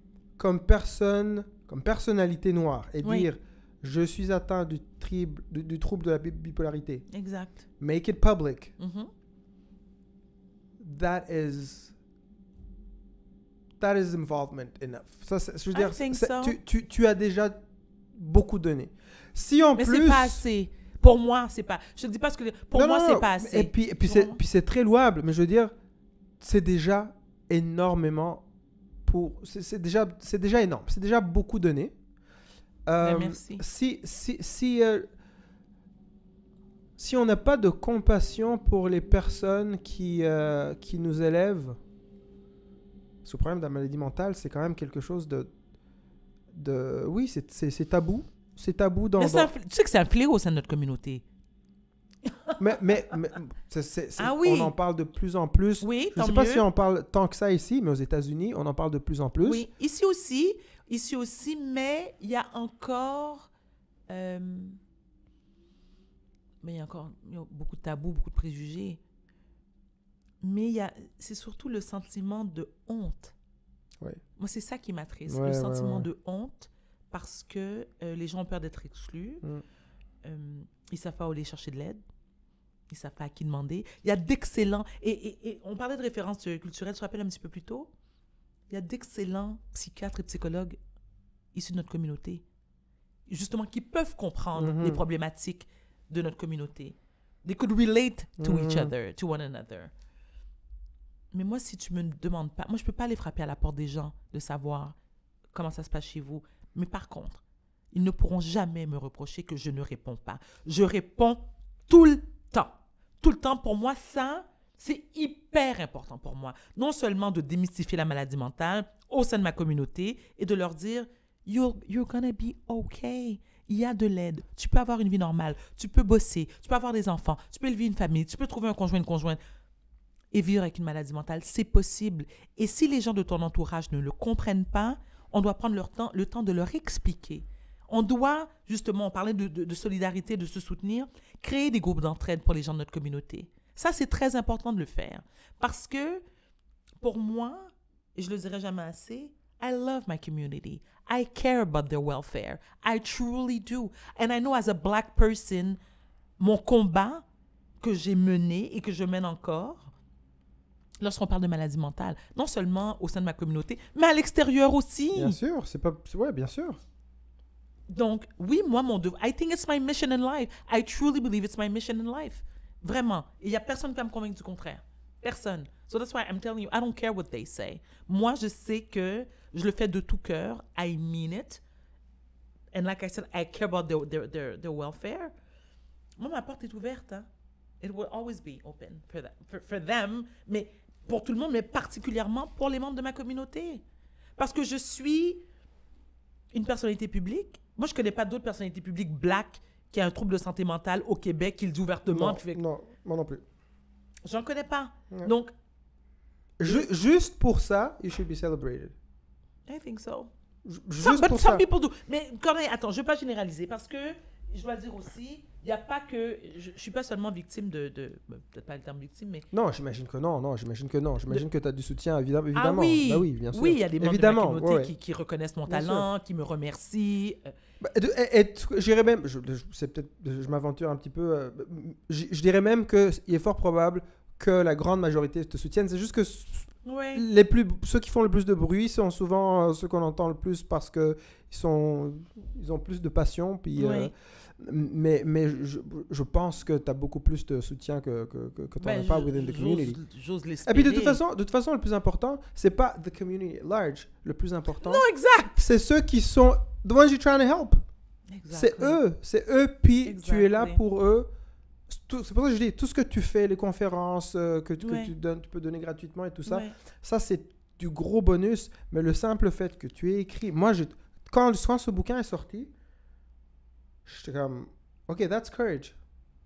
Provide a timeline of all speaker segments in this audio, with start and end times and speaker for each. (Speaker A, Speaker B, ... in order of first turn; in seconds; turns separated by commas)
Speaker A: 0.4-7.0, Speaker B: 3.0-3.3, Speaker B: 7.1-7.6, Speaker A: 7.8-8.7, Speaker B: 8.8-9.1, Speaker A: 10.8-11.9, Speaker A: 13.8-17.6, Speaker B: 15.7-16.6, Speaker A: 18.1-20.4, Speaker B: 19.8-24.4, Speaker A: 22.7-25.7, Speaker A: 26.4-28.4, Speaker A: 29.1-31.9, Speaker A: 32.9-35.1, Speaker B: 33.0-33.6, Speaker A: 37.0-41.8, Speaker A: 43.2-45.5, Speaker A: 46.5-49.5, Speaker B: 49.2-51.2, Speaker B: 52.2-52.6, Speaker A: 52.6-59.6, Speaker B: 54.2-54.7, Speaker B: 55.8-56.6, Speaker B: 59.4-63.5, Speaker B: 64.1-64.8, Speaker B: 66.6-69.0, Speaker B: 70.4-73.3, Speaker B: 74.4-79.4, Speaker A: 75.3-76.1, Speaker B: 80.2-82.0, Speaker B: 82.9-87.9, Speaker B: 88.7-90.8, Speaker B: 91.5-92.4, Speaker B: 93.3-99.9, Speaker A: 94.5-95.0, Speaker A: 98.4-98.9, Speaker B: 101.3-105.0, Speaker B: 105.5-129.4, Speaker B: 130.3-146.2, Speaker B: 147.0-155.8, Speaker B: 156.4-157.2, Speaker B: 157.8-159.9, Speaker B: 161.0-165.4, Speaker A: 165.1-166.8, Speaker B: 167.9-181.6, Speaker B: 182.7-185.3, Speaker B: 186.2-187.3, Speaker B: 187.8-193.8, Speaker B: 194.4-195.4, Speaker B: 196.5-202.6, Speaker A: 202.1-203.4, Speaker B: 204.2-205.5, Speaker A: 206.6-208.9, Speaker B: 209.7-210.3, Speaker A: 210.6-211.6, Speaker B: 211.0-219.4, Speaker A: 219.5-224.9, Speaker B: 222.5-227.5, Speaker A: 225.7-226.1, Speaker A: 227.8-250.0, Speaker B: 236.8-237.2, Speaker B: 243.8-244.1, Speaker B: 248.8-251.2, Speaker A: 250.6-255.0, Speaker B: 254.8-255.6, Speaker A: 255.6-257.8, Speaker B: 258.3-259.0, Speaker A: 258.5-261.3, Speaker B: 260.0-260.8, Speaker A: 261.9-272.7, Speaker B: 264.8-265.1, Speaker B: 266.4-266.7, Speaker A: 274.0-275.9